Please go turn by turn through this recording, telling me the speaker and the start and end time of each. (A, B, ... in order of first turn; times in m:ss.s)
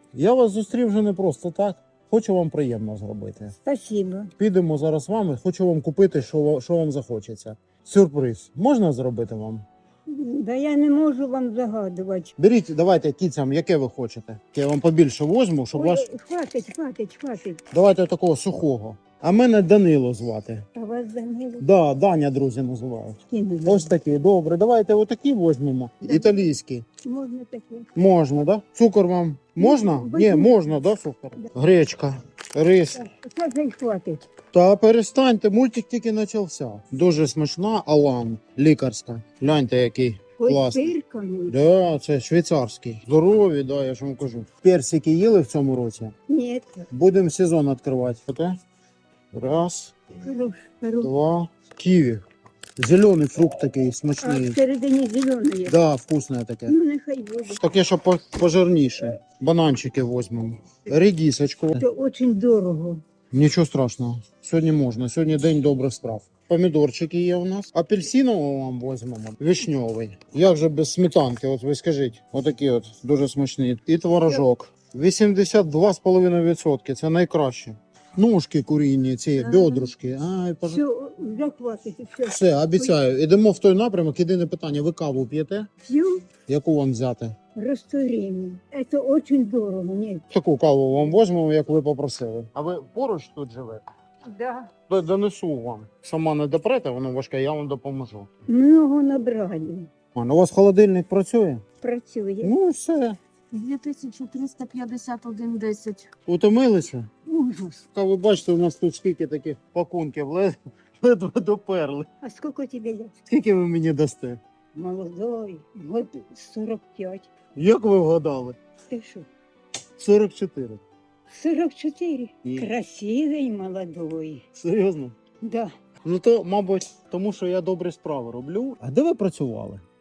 0:00.1-0:03.6 A
0:03.6-0:04.3 B
0:04.4-0:09.6 A
0:10.1-0:12.4 B
0:12.4-0:16.1 A
0:15.7-0:17.6 B
0:17.7-0:20.7 A
0:20.8-0:21.7 B
0:21.6-0:26.8 A
0:23.3-0:23.9 B
0:26.0-0:26.5 B
0:27.0-0:27.9 B
0:28.0-0:33.0 A
0:29.6-0:30.7 B
0:33.0-0:34.3 B
0:34.5-0:40.9 A
0:40.4-0:41.6 B
0:41.5-0:46.2 A
0:46.3-0:46.9 B
0:46.9-0:48.6 A
0:49.3-0:50.0 A
0:50.2-0:51.1 B
0:51.0-0:52.2 A
0:52.8-0:54.6 A
0:54.2-0:55.8 B
0:55.7-0:56.8 A
0:56.7-0:57.6 B
0:57.5-1:01.8 A
1:01.8-1:03.0 B
1:03.3-1:20.8 A
1:19.4-1:19.9 B
1:20.7-1:23.0 B
1:22.2-1:25.7 A
1:25.8-1:26.3 B
1:26.5-1:27.4 A
1:27.6-1:30.3 B
1:30.3-1:33.8 A
1:34.2-1:34.7 B
1:34.9-1:38.3 A
1:38.5-1:39.9 B
1:40.1-1:41.6 A
1:41.8-1:42.5 B
1:42.4-1:43.2 A
1:43.5-1:46.1 B
1:46.3-1:47.1 A
1:47.3-1:47.8 B
1:47.9-1:52.1 A
1:52.2-1:53.2 B
1:53.3-1:54.4 A
1:54.8-1:57.3 B
1:57.6-1:58.6 A
1:58.9-1:59.3 B
2:00.0-2:00.8 A
2:01.3-2:04.5 B
2:04.5-2:05.2 A
2:05.4-2:05.7 B
2:06.0-2:09.8 A